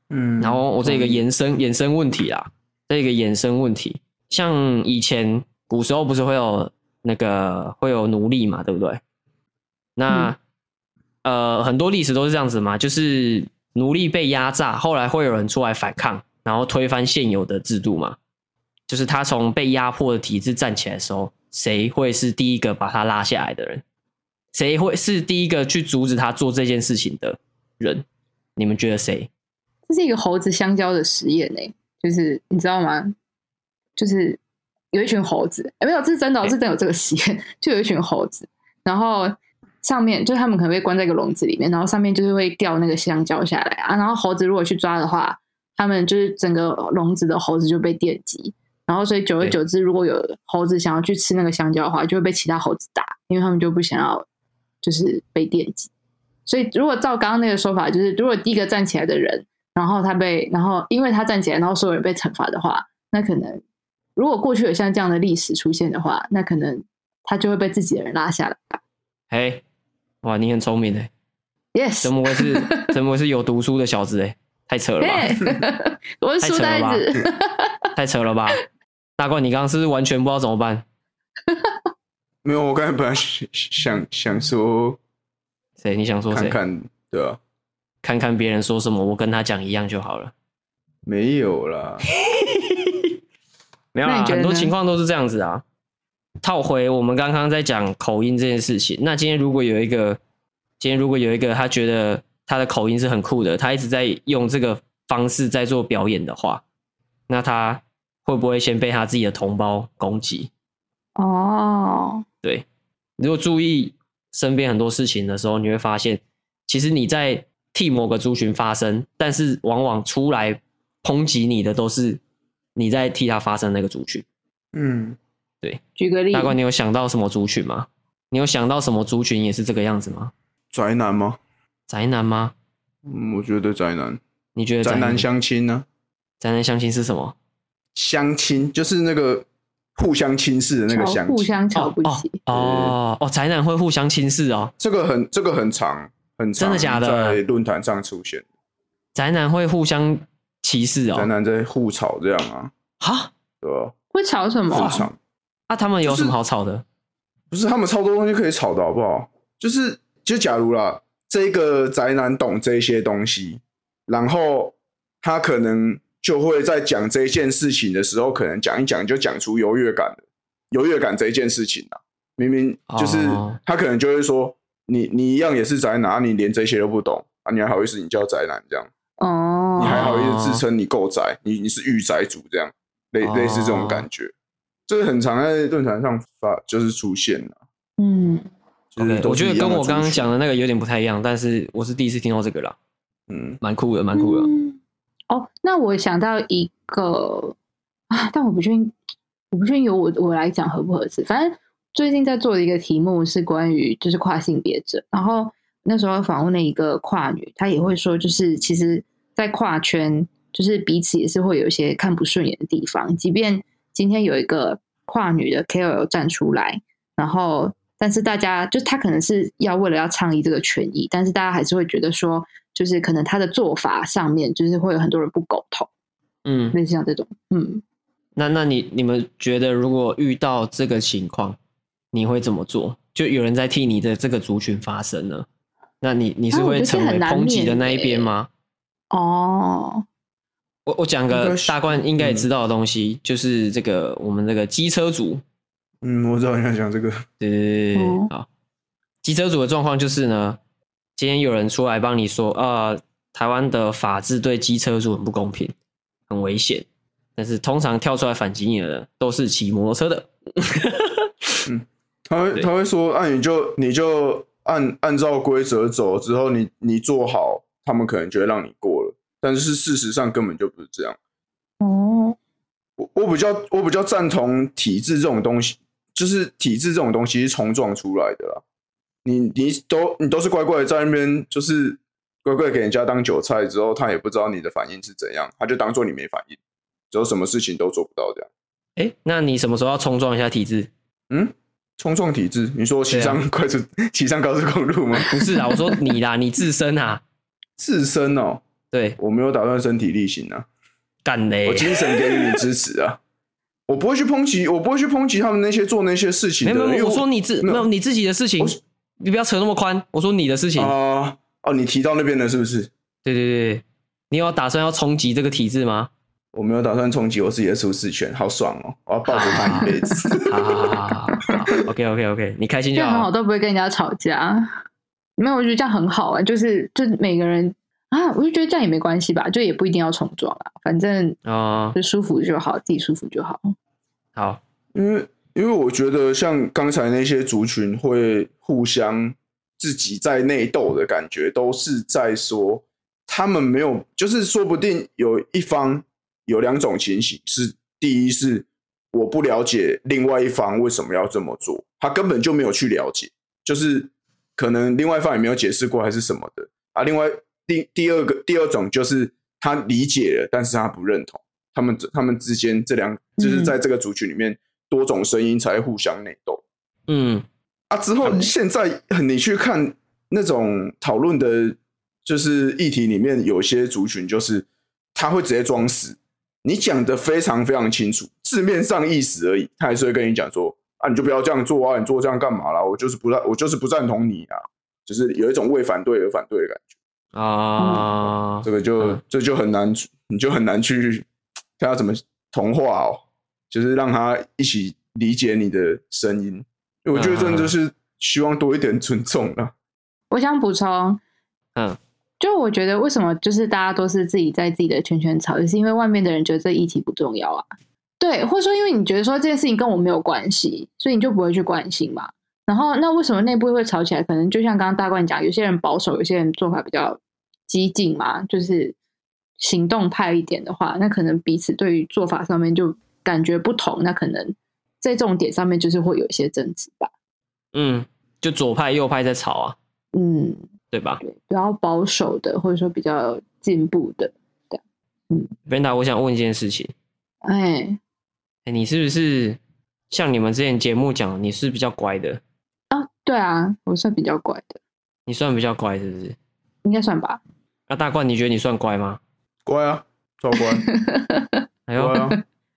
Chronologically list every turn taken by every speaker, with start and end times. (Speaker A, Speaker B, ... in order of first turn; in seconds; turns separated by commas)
Speaker A: 0.1-1.2, Speaker B: 0.4-9.0, Speaker B: 10.0-10.4, Speaker B: 11.2-18.2, Speaker B: 18.9-23.8, Speaker B: 24.5-28.0, Speaker B: 28.6-29.3, Speaker C: 29.9-33.1, Speaker C: 34.0-34.4, Speaker C: 34.9-54.2, Speaker C: 54.8-55.9, Speaker C: 56.5-63.6, Speaker C: 64.2-68.8, Speaker B: 69.3-69.6, Speaker B: 70.2-71.1, Speaker C: 71.7-72.9, Speaker B: 72.0-75.4, Speaker C: 75.0-77.9, Speaker B: 76.4-77.0, Speaker B: 77.9-78.6, Speaker B: 79.2-80.8, Speaker A: 82.4-85.0, Speaker B: 85.8-86.6, Speaker A: 86.3-87.4, Speaker B: 88.0-90.3, Speaker A: 91.0-92.0, Speaker B: 92.2-93.1, Speaker B: 93.9-95.6, Speaker C: 94.0-94.7, Speaker B: 96.4-100.2, Speaker B: 100.8-106.6, Speaker B: 107.3-110.5, Speaker C: 111.2-112.2, Speaker B: 113.2-122.2, Speaker B: 122.8-124.2, Speaker A: 124.7-125.2, Speaker C: 126.0-126.5, Speaker B: 126.3-130.3, Speaker A: 130.7-131.4, Speaker B: 131.9-132.5, Speaker A: 133.1-134.2, Speaker B: 134.5-135.2, Speaker A: 134.8-135.8, Speaker B: 136.4-137.3, Speaker A: 137.9-141.5, Speaker C: 140.9-142.4, Speaker B: 141.7-144.7, Speaker A: 142.5-142.9, Speaker A: 144.8-148.4, Speaker B: 146.6-147.4, Speaker B: 149.1-151.3, Speaker A: 151.1-152.7, Speaker B: 153.0-153.3, Speaker A: 153.6-153.9, Speaker C: 154.1-155.1, Speaker A: 154.7-155.2, Speaker B: 155.7-156.8, Speaker A: 156.0-156.3, Speaker A: 157.5-178.9, Speaker B: 172.9-173.6, Speaker C: 179.2-180.1, Speaker A: 179.8-184.3, Speaker B: 179.8-180.6, Speaker B: 183.2-184.1, Speaker A: 184.9-187.6, Speaker C: 188.0-188.5, Speaker A: 188.9-190.3, Speaker B: 189.0-192.8, Speaker A: 193.3-193.6, Speaker B: 193.6-194.5, Speaker C: 194.1-194.8, Speaker C: 195.3-197.5, Speaker C: 198.1-198.9, Speaker C: 199.5-225.9, Speaker B: 226.4-226.8, Speaker C: 226.7-227.8, Speaker B: 228.3-231.6, Speaker B: 232.1-235.4, Speaker B: 236.0-238.5, Speaker C: 236.5-238.3, Speaker C: 239.1-240.0, Speaker B: 240.8-245.4, Speaker A: 241.3-242.5, Speaker A: 246.0-247.2, Speaker B: 247.4-248.5, Speaker C: 247.9-248.3, Speaker B: 249.2-250.6, Speaker B: 251.2-255.7, Speaker B: 256.3-256.9, Speaker B: 257.4-261.3, Speaker A: 261.6-271.2, Speaker C: 271.8-272.4, Speaker A: 273.0-278.6, Speaker A: 279.2-286.6, Speaker A: 287.1-288.5, Speaker B: 289.0-290.9, Speaker A: 291.3-295.4, Speaker B: 293.1-293.4, Speaker B: 295.2-297.2, Speaker A: 297.8-298.6, Speaker B: 298.9-299.2, Speaker A: 299.2-300.7, Speaker B: 301.2-302.6, Speaker A: 301.6-303.2, Speaker A: 303.9-307.9, Speaker B: 306.6-310.9, Speaker A: 310.8-312.9, Speaker B: 313.2-316.1, Speaker A: 316.5-320.7, Speaker B: 319.3-319.9, Speaker C: 319.5-320.4, Speaker B: 320.4-323.3, Speaker C: 322.9-324.8, Speaker C: 325.4-331.4, Speaker B: 331.4-332.0, Speaker C: 331.9-333.6, Speaker B: 334.3-334.6, Speaker A: 334.9-366.6, Speaker C: 363.4-363.7, Speaker B: 367.1-367.4, Speaker A: 367.9-386.9, Speaker B: 387.3-389.2, Speaker C: 387.8-388.1, Speaker A: 388.6-391.3, Speaker A: 391.8-399.7, Speaker B: 397.1-397.7, Speaker C: 400.3-401.2, Speaker C: 402.4-407.7, Speaker C: 408.2-418.9, Speaker C: 419.6-427.1, Speaker B: 427.7-429.8, Speaker C: 430.1-430.6, Speaker B: 430.9-431.2, Speaker C: 431.2-435.5, Speaker B: 435.7-436.9, Speaker C: 437.4-438.0, Speaker B: 438.6-439.6, Speaker B: 440.1-442.4, Speaker C: 442.9-444.8, Speaker B: 445.3-446.4, Speaker C: 446.8-447.4, Speaker B: 447.9-449.2, Speaker A: 449.6-450.9, Speaker C: 450.6-451.6, Speaker B: 451.9-452.3, Speaker A: 451.9-452.4